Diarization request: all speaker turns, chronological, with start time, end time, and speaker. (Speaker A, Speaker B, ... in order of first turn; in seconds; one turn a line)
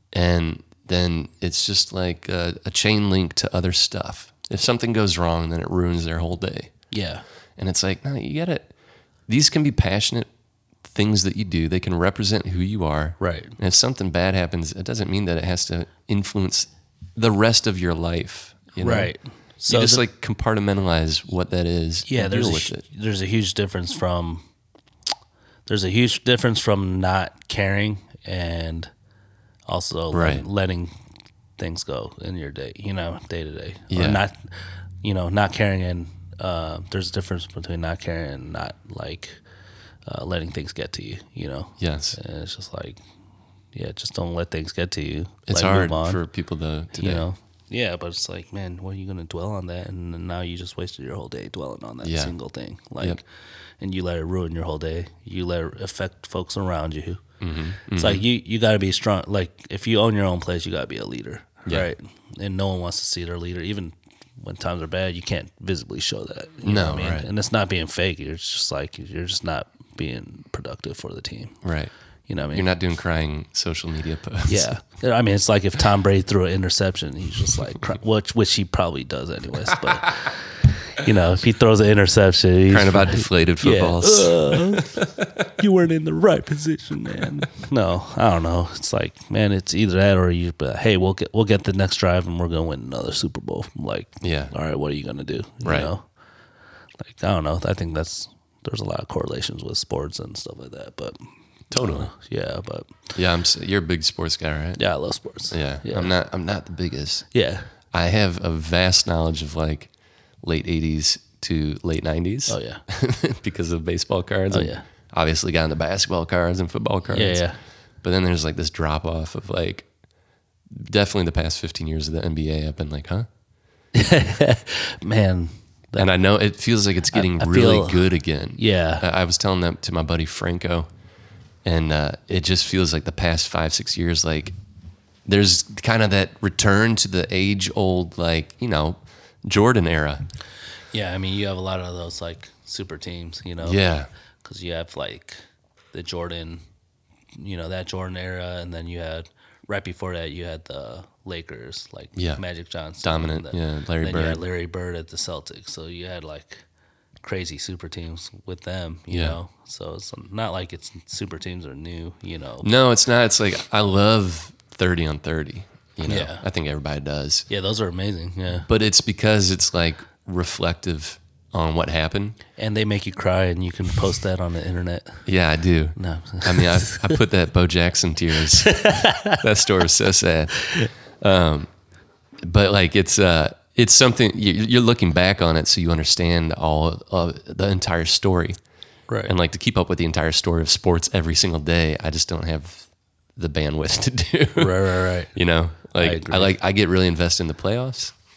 Speaker A: 0.1-6.7
Speaker B: 6.9-7.2
Speaker A: 7.6-8.7
Speaker A: 9.3-10.3
Speaker A: 10.8-19.1
Speaker B: 13.2-13.6
Speaker B: 18.8-20.0
Speaker A: 19.7-22.8
Speaker B: 22.1-24.5
Speaker B: 25.7-28.9
Speaker B: 29.6-30.9
Speaker A: 30.1-30.4
Speaker B: 31.6-34.5
Speaker A: 33.9-34.2
Speaker B: 35.0-39.4
Speaker B: 40.0-43.0
Speaker A: 41.8-42.2
Speaker B: 43.7-46.2
Speaker A: 45.5-47.2
Speaker B: 47.0-53.2
Speaker A: 52.0-52.3
Speaker B: 53.8-57.2
Speaker A: 57.4-58.2
Speaker B: 57.9-71.6
Speaker A: 66.6-67.3
Speaker A: 71.6-71.9
Speaker B: 72.3-72.7
Speaker A: 72.5-74.7
Speaker B: 74.5-85.0
Speaker A: 82.7-85.2
Speaker B: 85.6-96.0
Speaker A: 94.2-94.5
Speaker A: 95.6-95.9
Speaker B: 97.0-101.2
Speaker A: 101.7-102.1
Speaker B: 101.7-103.0
Speaker A: 103.1-104.8
Speaker B: 104.8-106.1
Speaker A: 105.5-107.3
Speaker B: 107.3-107.7
Speaker A: 107.9-109.9
Speaker A: 110.4-117.4
Speaker B: 112.5-112.8
Speaker B: 114.5-114.8
Speaker B: 117.1-117.6
Speaker A: 118.0-119.8
Speaker A: 120.7-123.3
Speaker B: 123.9-126.1
Speaker A: 126.0-130.9
Speaker B: 127.1-129.0
Speaker A: 131.6-134.5
Speaker A: 135.2-140.2
Speaker B: 140.9-143.8
Speaker A: 143.6-144.1
Speaker B: 144.4-145.4
Speaker B: 145.9-146.6
Speaker B: 147.3-156.6
Speaker A: 152.2-152.4
Speaker A: 153.0-154.4
Speaker B: 157.2-162.7
Speaker A: 159.1-159.4
Speaker A: 162.6-167.5
Speaker B: 166.1-166.4
Speaker B: 167.5-168.7
Speaker A: 168.7-172.4
Speaker B: 172.6-175.2
Speaker A: 175.2-181.7
Speaker B: 175.9-177.2
Speaker B: 178.4-179.4
Speaker A: 182.4-188.6
Speaker B: 189.1-189.3
Speaker A: 189.2-198.1
Speaker B: 194.5-195.3
Speaker B: 195.9-196.6